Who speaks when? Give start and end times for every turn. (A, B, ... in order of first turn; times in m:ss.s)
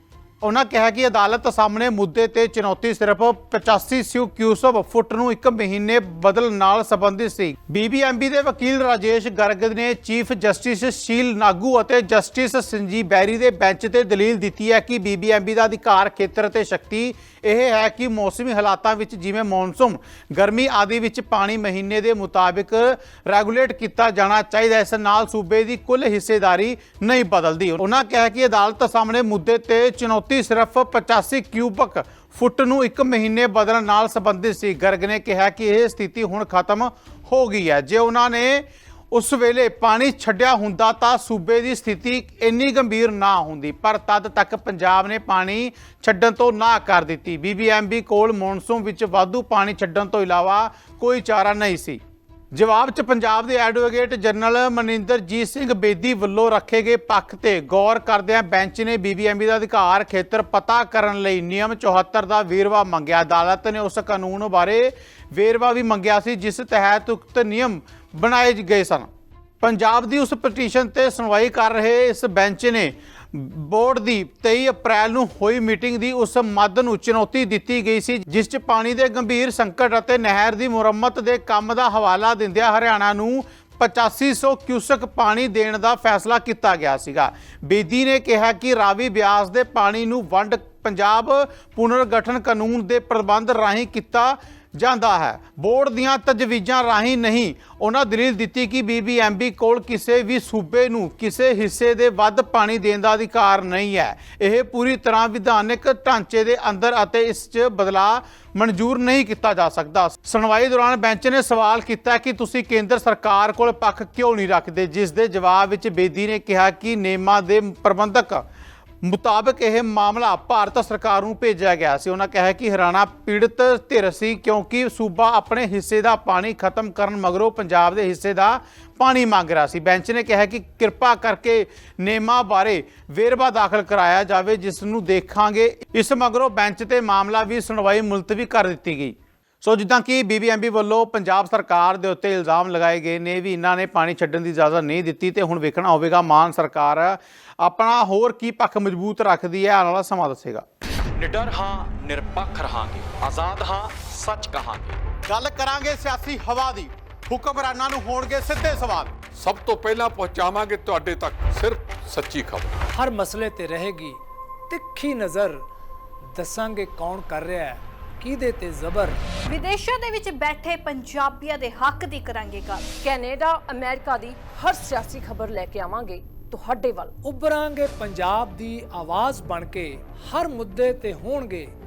0:00.4-0:52.0 A
0:52.5-1:09.1 A
1:09.6-1:58.4 A
1:59.0-2:30.6 A
2:31.2-2:35.0 B
2:35.3-2:39.1 A
2:39.3-2:42.8 C
2:42.9-2:45.6 D
2:46.3-2:49.2 D
2:49.4-2:53.0 E
2:53.0-2:57.1 F
2:57.2-3:01.7 D